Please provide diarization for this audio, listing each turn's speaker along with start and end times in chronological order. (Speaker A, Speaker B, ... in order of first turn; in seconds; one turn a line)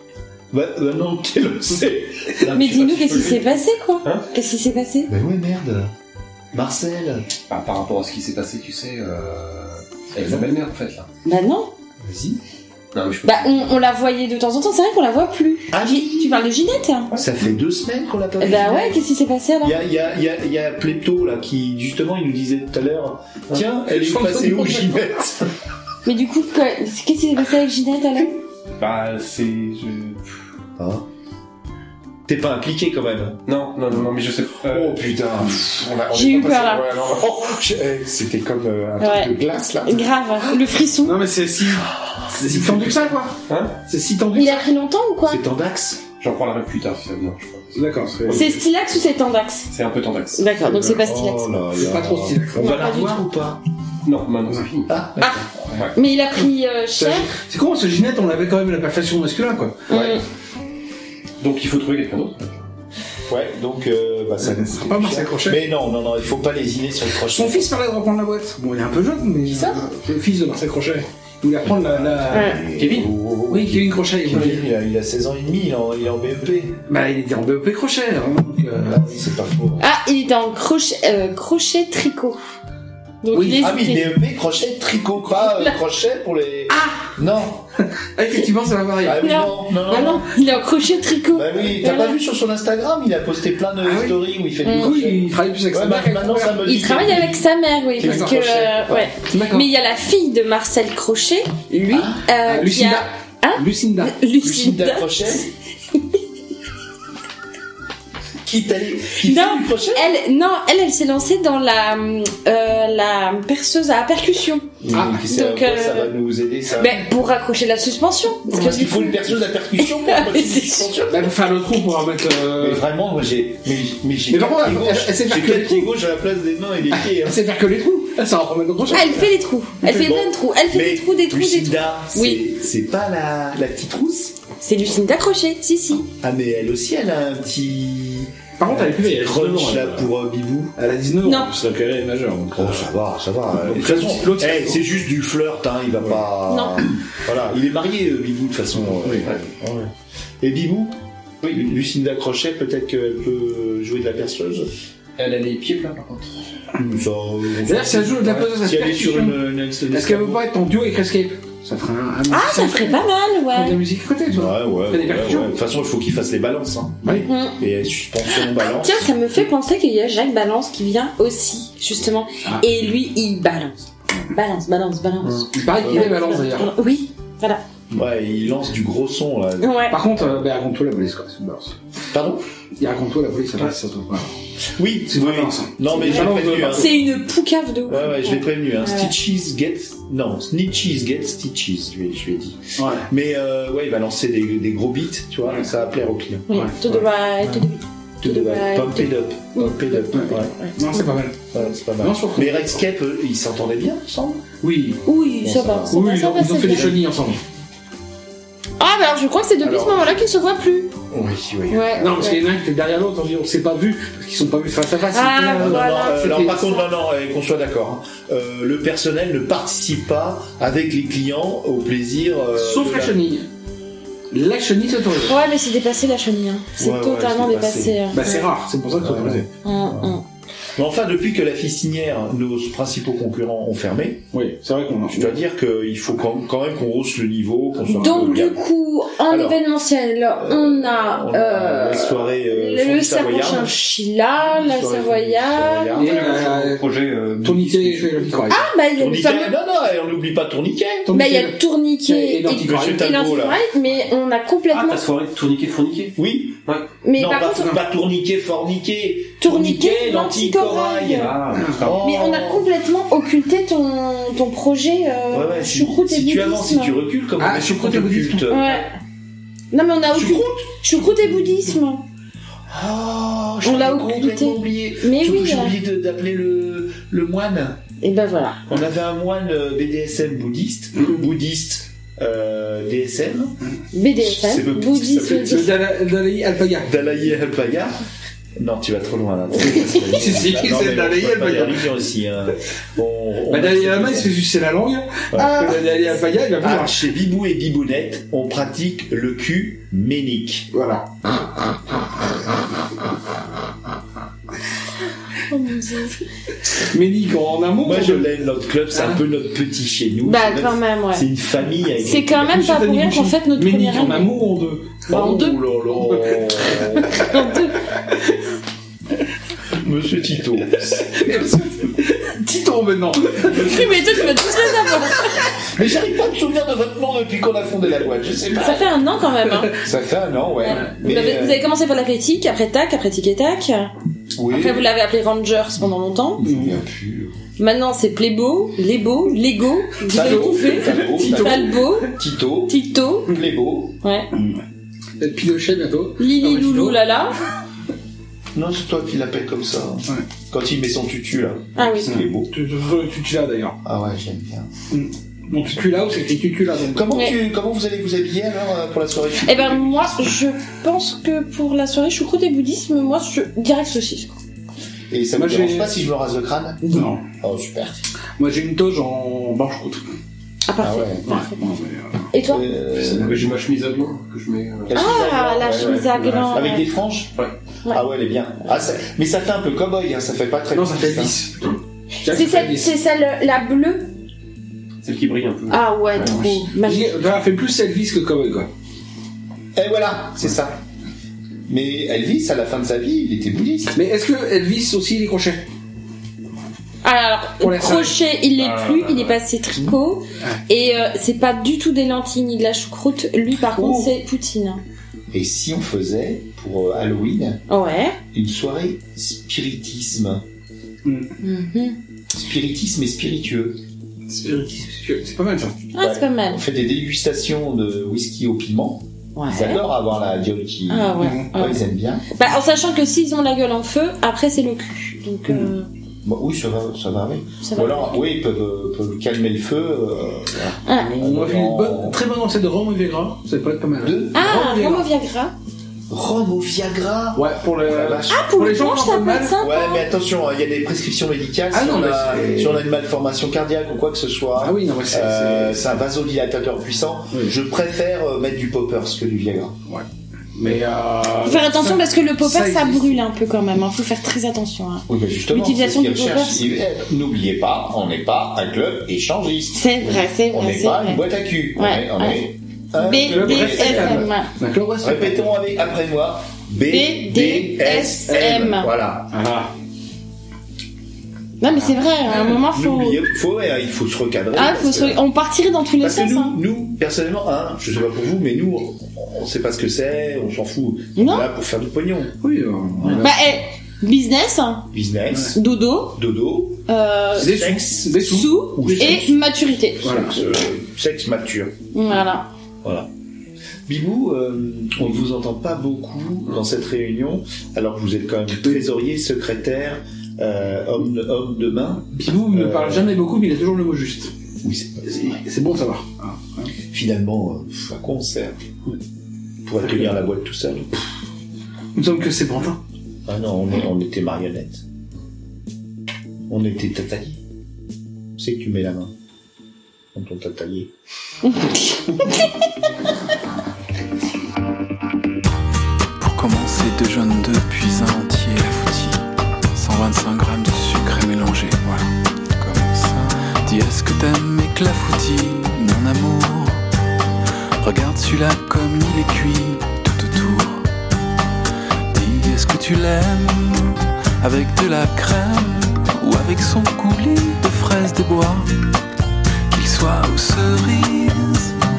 Speaker A: 0.5-2.4
Speaker B: 2.4-4.3
Speaker C: 2.5-5.1
Speaker A: 5.1-5.9
Speaker A: 6.5-7.3
Speaker B: 7.5-11.1
Speaker A: 10.2-10.5
Speaker C: 11.2-11.7
Speaker A: 12.0-12.4
Speaker B: 12.9-13.8
Speaker C: 13.2-17.1
Speaker A: 15.7-16.4
Speaker B: 17.1-17.4
Speaker A: 17.1-19.0
Speaker C: 18.4-19.8
Speaker A: 19.6-25.5
Speaker D: 23.9-25.0
Speaker C: 26.1-28.4
Speaker B: 28.8-30.4
Speaker A: 30.8-31.1
Speaker A: 32.3-33.4
Speaker B: 33.5-35.7
Speaker A: 34.6-40.1
Speaker C: 36.1-36.9
Speaker C: 39.0-41.2
Speaker D: 41.0-43.4
Speaker A: 42.3-43.2
Speaker B: 43.5-43.8
Speaker D: 43.9-44.7
Speaker C: 44.3-45.4
Speaker A: 45.2-46.0
Speaker B: 46.2-48.6
Speaker D: 47.7-48.5
Speaker C: 48.3-49.7
Speaker B: 49.7-51.0
Speaker C: 50.4-51.5
Speaker A: 50.7-53.6
Speaker D: 51.8-53.1
Speaker C: 52.6-53.2
Speaker B: 54.0-55.0
Speaker A: 54.9-55.8
Speaker C: 55.2-57.3
Speaker D: 57.0-59.8
Speaker C: 59.9-60.2
Speaker B: 61.4-62.7
Speaker A: 63.3-67.7
Speaker D: 64.6-65.6
Speaker D: 67.3-72.5
Speaker A: 69.5-69.8
Speaker A: 71.7-76.8
Speaker C: 72.3-72.6
Speaker B: 72.8-73.1
Speaker D: 73.5-74.7
Speaker D: 76.9-79.1
Speaker A: 78.8-79.8
Speaker C: 79.8-82.4
Speaker C: 83.2-84.1
Speaker D: 83.3-83.6
Speaker A: 83.4-87.7
Speaker C: 85.4-85.7
Speaker D: 86.7-87.0
Speaker D: 88.2-89.4
Speaker A: 89.0-90.3
Speaker C: 89.2-92.2
Speaker A: 91.3-99.1
Speaker D: 93.8-96.6
Speaker C: 94.6-94.9
Speaker C: 96.6-106.2
Speaker D: 98.0-98.4
Speaker D: 99.3-99.7
Speaker A: 101.9-102.2
Speaker D: 102.5-104.1
Speaker A: 104.4-105.5
Speaker A: 108.4-110.1
Speaker C: 109.2-116.1
Speaker A: 114.8-117.1
Speaker D: 114.9-115.2
Speaker C: 116.7-119.2
Speaker A: 118.5-121.5
Speaker C: 119.8-120.9
Speaker D: 121.1-122.8
Speaker A: 122.6-127.4
Speaker D: 124.3-125.9
Speaker D: 126.9-129.3
Speaker C: 128.9-132.4
Speaker A: 129.9-134.4
Speaker C: 134.6-136.1
Speaker A: 136.2-140.7
Speaker D: 138.6-140.1
Speaker D: 140.8-142.9
Speaker C: 141.2-141.5
Speaker A: 142.6-149.9
Speaker D: 143.6-144.8
Speaker C: 146.5-146.8
Speaker D: 148.9-149.3
Speaker A: 150.4-154.7
Speaker B: 155.2-156.4
Speaker A: 156.8-160.5
Speaker D: 157.7-165.5
Speaker C: 162.3-163.8
Speaker A: 164.3-169.1
Speaker C: 167.2-167.6
Speaker C: 168.3-177.6
Speaker D: 175.5-176.7
Speaker A: 175.8-176.2
Speaker A: 177.9-180.4
Speaker C: 179.6-180.0
Speaker D: 179.9-181.8
Speaker A: 182.1-182.4
Speaker D: 182.8-184.3
Speaker A: 184.8-187.1
Speaker D: 185.1-186.9
Speaker C: 185.9-189.1
Speaker A: 187.9-197.6
Speaker D: 192.8-193.1
Speaker C: 196.5-200.8
Speaker A: 198.2-200.5
Speaker D: 200.1-201.4
Speaker A: 201.5-204.4
Speaker D: 202.0-202.8
Speaker D: 204.6-205.0
Speaker C: 205.1-206.9
Speaker A: 205.4-207.0
Speaker D: 205.9-207.4
Speaker C: 208.8-210.9
Speaker A: 209.6-210.2
Speaker A: 211.1-212.3
Speaker C: 211.7-212.4
Speaker D: 212.0-216.7
Speaker C: 215.1-216.7
Speaker A: 215.5-223.2
Speaker D: 222.6-223.5
Speaker D: 224.3-225.3
Speaker C: 225.2-228.5
Speaker A: 226.8-228.1
Speaker D: 228.1-229.5
Speaker A: 229.0-230.2
Speaker C: 229.6-230.2
Speaker A: 230.8-234.3
Speaker D: 234.3-235.4
Speaker A: 235.1-238.6
Speaker C: 237.9-246.3
Speaker A: 239.2-239.6
Speaker A: 240.4-243.7
Speaker A: 244.4-246.7
Speaker D: 246.0-246.8
Speaker B: 246.0-248.4
Speaker D: 247.4-248.6
Speaker C: 248.5-249.6
Speaker A: 249.0-251.1
Speaker D: 251.1-253.1
Speaker C: 251.1-255.1
Speaker A: 252.5-253.6
Speaker B: 254.7-256.9
Speaker A: 256.2-256.6
Speaker C: 257.0-257.8
Speaker A: 257.1-262.7
Speaker C: 259.4-261.3
Speaker B: 261.1-262.1
Speaker D: 261.6-261.8
Speaker C: 262.0-266.9
Speaker A: 265.3-268.9
Speaker D: 267.4-268.5
Speaker C: 268.5-268.9
Speaker C: 269.7-272.0
Speaker A: 270.1-270.7
Speaker A: 272.7-277.8
Speaker C: 273.6-275.7
Speaker C: 278.0-278.6
Speaker A: 278.7-283.6
Speaker C: 283.9-285.7
Speaker A: 284.2-285.7
Speaker D: 285.3-286.9
Speaker A: 286.8-288.0
Speaker A: 288.6-294.3
Speaker D: 290.1-291.9
Speaker D: 293.5-297.0
Speaker A: 295.3-295.8
Speaker A: 296.6-300.7
Speaker D: 300.7-301.1
Speaker C: 305.5-306.2
Speaker D: 306.8-308.3
Speaker A: 307.8-312.7
Speaker D: 308.9-309.2
Speaker C: 310.2-311.3
Speaker C: 312.0-314.4
Speaker D: 312.4-315.2
Speaker A: 315.1-317.3
Speaker C: 315.1-315.7
Speaker C: 317.1-317.8
Speaker A: 319.8-321.4
Speaker D: 320.8-324.0
Speaker A: 323.5-323.9
Speaker C: 323.5-325.5
Speaker A: 325.7-329.0
Speaker C: 328.6-329.7
Speaker A: 329.8-331.7
Speaker C: 330.6-333.9
Speaker D: 330.7-330.9
Speaker A: 334.4-334.9
Speaker C: 334.5-336.4
Speaker A: 336.4-337.4
Speaker D: 336.4-336.8
Speaker C: 337.6-342.1
Speaker A: 340.1-344.0
Speaker D: 340.1-341.9
Speaker C: 342.7-343.4
Speaker C: 344.0-344.3
Speaker D: 344.3-344.6
Speaker D: 345.2-347.0
Speaker C: 346.2-347.3
Speaker A: 348.5-352.5
Speaker C: 351.8-352.2
Speaker D: 352.1-353.8
Speaker A: 353.8-354.7
Speaker D: 354.9-357.1
Speaker A: 356.9-360.4
Speaker C: 357.1-357.4
Speaker C: 359.4-364.4
Speaker A: 365.1-368.0
Speaker D: 365.4-366.0
Speaker D: 366.8-367.2
Speaker D: 368.4-370.1
Speaker C: 370.7-371.5
Speaker A: 370.8-371.2
Speaker D: 371.3-372.3
Speaker C: 372.3-372.7
Speaker A: 372.5-373.5
Speaker B: 372.9-376.6
Speaker A: 374.9-377.4
Speaker C: 374.9-376.9
Speaker A: 377.9-381.4
Speaker D: 380.7-382.9
Speaker C: 382.3-384.1
Speaker B: 385.0-386.6
Speaker C: 385.7-387.2
Speaker D: 386.4-388.7
Speaker A: 389.8-390.8
Speaker A: 391.7-394.0
Speaker D: 393.9-395.7
Speaker C: 397.0-404.8
Speaker D: 397.6-398.2
Speaker B: 398.6-399.4
Speaker D: 403.8-404.1
Speaker A: 405.3-407.6
Speaker C: 407.7-408.2
Speaker A: 408.3-410.4
Speaker D: 411.0-411.3
Speaker C: 411.4-412.0
Speaker A: 412.3-413.8
Speaker D: 414.3-415.8
Speaker C: 415.9-416.6
Speaker A: 416.0-422.2
Speaker C: 419.4-419.8
Speaker C: 420.9-421.8
Speaker D: 421.2-421.5
Speaker C: 422.4-425.9
Speaker A: 426.2-432.2
Speaker C: 427.6-428.2
Speaker C: 430.9-431.1
Speaker D: 431.0-435.1
Speaker A: 434.0-434.6
Speaker C: 434.3-435.5
Speaker A: 436.1-438.5
Speaker D: 437.4-439.5
Speaker C: 438.3-440.1
Speaker A: 439.6-449.8
Speaker D: 441.7-442.8
Speaker D: 444.6-445.9
Speaker D: 449.9-453.2
Speaker C: 451.4-456.6
Speaker A: 455.1-464.3
Speaker C: 459.7-461.2
Speaker C: 461.8-462.4
Speaker C: 463.0-464.5
Speaker D: 463.2-465.6
Speaker A: 465.0-469.3
Speaker C: 466.9-468.9
Speaker D: 469.3-469.7
Speaker C: 471.6-473.2
Speaker D: 471.8-472.5
Speaker A: 472.4-475.2
Speaker C: 474.5-476.6
Speaker A: 476.0-482.4
Speaker C: 481.2-481.5
Speaker D: 482.4-483.5
Speaker A: 483.0-483.3
Speaker C: 483.2-484.9
Speaker A: 484.9-489.4
Speaker D: 485.3-485.6
Speaker C: 485.5-486.2
Speaker C: 486.9-487.6
Speaker D: 487.4-489.2
Speaker C: 488.1-490.2
Speaker A: 490.0-491.8
Speaker D: 490.0-490.4
Speaker C: 491.9-492.5
Speaker A: 492.8-493.1
Speaker A: 493.9-503.2
Speaker D: 498.6-498.8
Speaker D: 502.2-504.3
Speaker A: 504.6-505.4
Speaker D: 505.1-506.7
Speaker A: 506.9-508.6
Speaker A: 509.6-510.9
Speaker D: 509.8-510.2
Speaker D: 511.9-512.8
Speaker A: 513.3-514.8
Speaker A: 516.5-517.4
Speaker A: 518.4-519.1
Speaker A: 520.1-520.9
Speaker C: 521.5-522.5
Speaker E: 526.2-536.8
Speaker E: 537.8-540.9
Speaker E: 542.1-548.7
Speaker E: 549.7-551.8